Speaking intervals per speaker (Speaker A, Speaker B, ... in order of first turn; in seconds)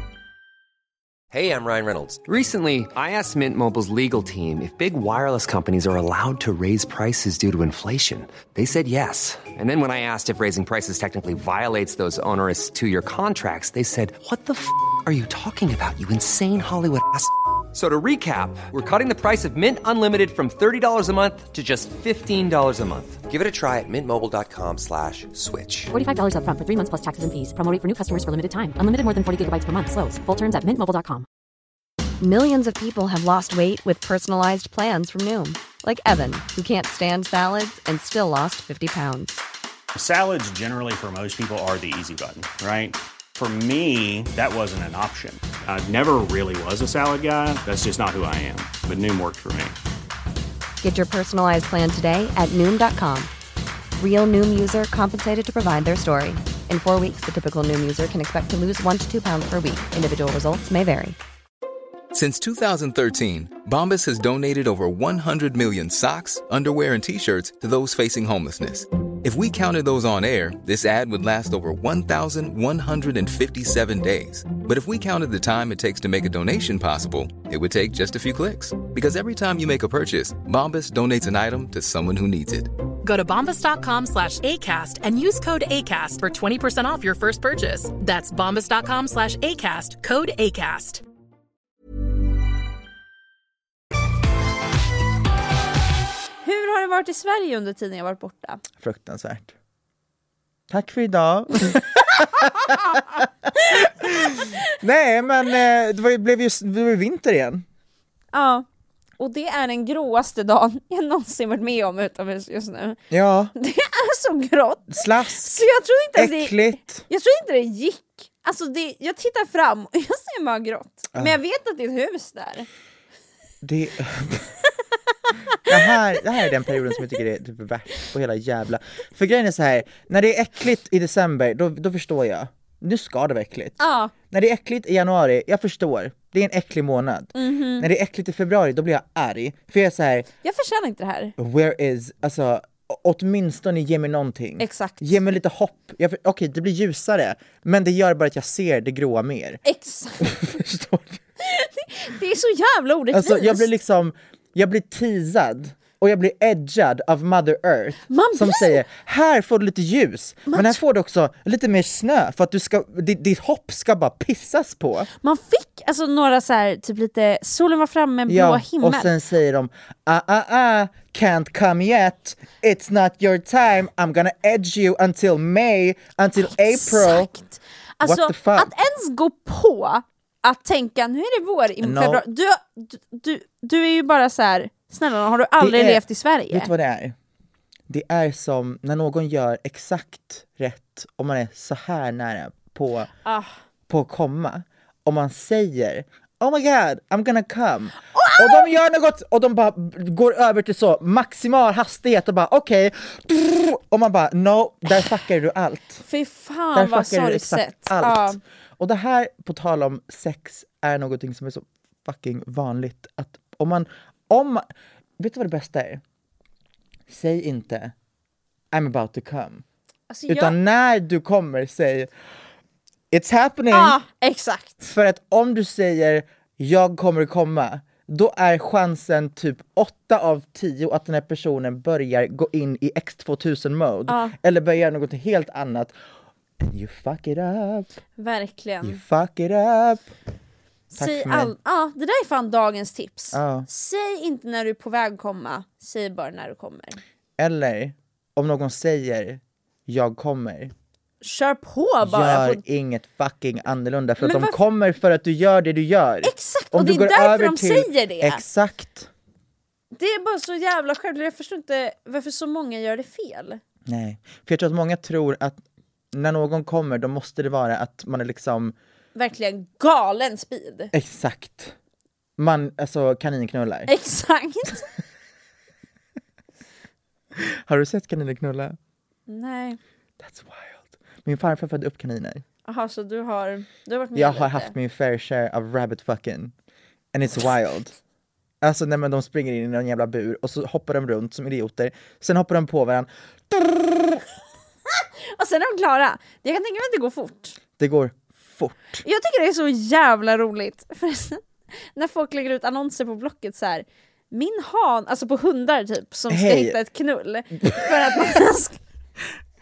Speaker A: 1.3-25.9
Speaker B: 25.9-31.3
Speaker C: 32.2-39.4, 50.8-53.3, 54.0-61.2
Speaker D: 40.0-49.8
Speaker E: 62.1-82.7
Speaker F: 83.0-91.0
Speaker G: 96.4-98.6, 108.3-108.7, 109.2-113.0, 113.5-122.7, 125.3-125.9, 133.8-134.1, 137.4-137.9, 140.4-141.3, 144.6-145.2, 149.6-150.5, 151.4-153.7, 158.1-158.8, 160.5-160.8, 165.2-169.1, 176.4-186.7, 193.2-193.6, 198.1-198.8, 206.0-208.4, 220.1-220.6, 223.7-224.8, 234.1-234.3, 238.2-239.0, 240.9-247.0, 251.2-252.6, 254.2-254.6, 256.2-258.4, 259.9-263.6, 269.1-270.9, 273.9-274.9, 279.3-279.8, 282.7-284.7, 294.9-297.6, 299.1-308.8
Speaker H: 98.8-99.5, 100.7-102.8, 103.7-107.7, 113.1-113.5, 114.9-115.6, 116.2-117.1, 123.6-124.5, 125.7-140.3, 141.4-149.6, 150.2-151.2, 153.1-165.1, 168.3-177.3, 178.0-178.7, 181.8-182.2, 185.6-187.2, 187.9-193.1, 193.9-206.0, 206.7-214.7, 215.2-216.0, 217.1-217.9, 218.7-219.6, 220.3-222.1, 223.1-224.0, 224.8-236.0, 236.6-237.9, 238.8-240.1, 241.0-241.5, 243.3-243.7, 247.4-250.7, 252.0-259.1, 263.9-268.8, 270.9-271.8, 272.4-273.9, 277.4-278.8, 280.2-282.4, 284.1-286.5, 287.1-288.0, 288.6-294.2, 297.8-299.0, 306.3-306.8, 307.6-308.4